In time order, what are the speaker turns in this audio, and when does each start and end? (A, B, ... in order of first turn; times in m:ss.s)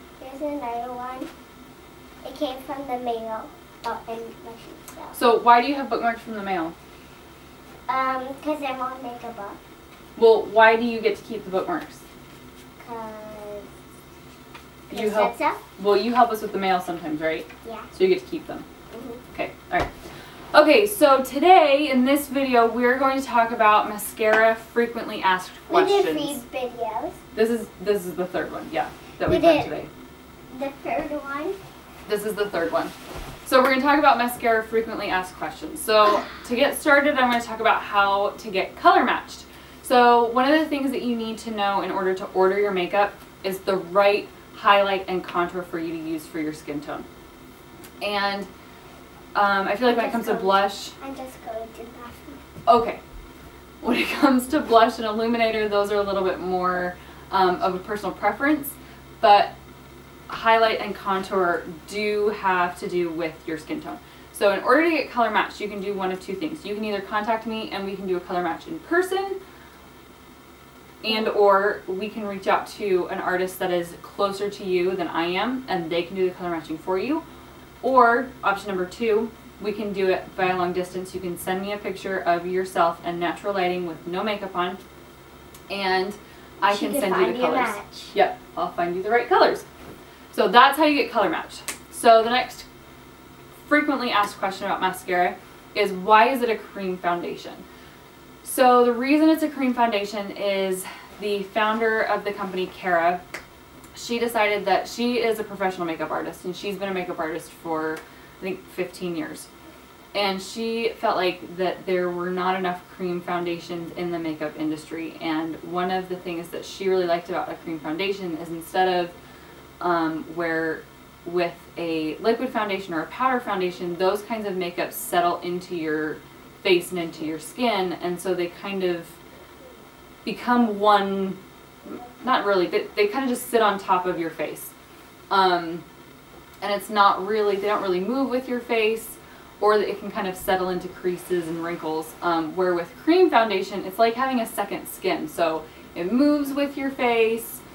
0:00.2-0:01.3 A
0:02.2-0:05.2 A
0:05.1-0:06.7 B
0:07.9-0:09.6 A
0:10.2-0:12.0 B
0:12.8-0:13.7 A
0:14.9-0:15.6 A
0:14.9-0:18.6 B
0:17.6-0:17.9 A
0:18.9-0:19.2 A
0:19.3-0:19.9 B
0:20.5-0:26.4 B
0:25.7-0:27.2 A
0:27.3-0:29.9 B
0:29.2-0:29.7 A
0:30.5-0:31.6 A
0:32.0-0:32.9 B
0:33.4-0:47.1 B
0:48.0-0:48.5 B
0:49.3-0:50.9 B
0:49.8-0:52.4 A
0:52.6-0:53.0 B
0:53.8-0:59.6 B
1:00.3-1:09.4 B
1:11.0-1:17.2 B
1:17.8-1:24.8 B
1:25.7-1:29.6 B
1:26.6-1:28.1 A
1:30.3-1:32.7 B
1:33.7-1:37.6 B
1:38.4-1:43.2 B
1:43.9-1:49.5 B
1:50.1-1:59.1 B
1:59.8-2:09.2 B
2:10.2-2:11.4 B
2:12.0-2:14.7 B
2:15.3-2:15.8 B
2:16.6-2:27.6 B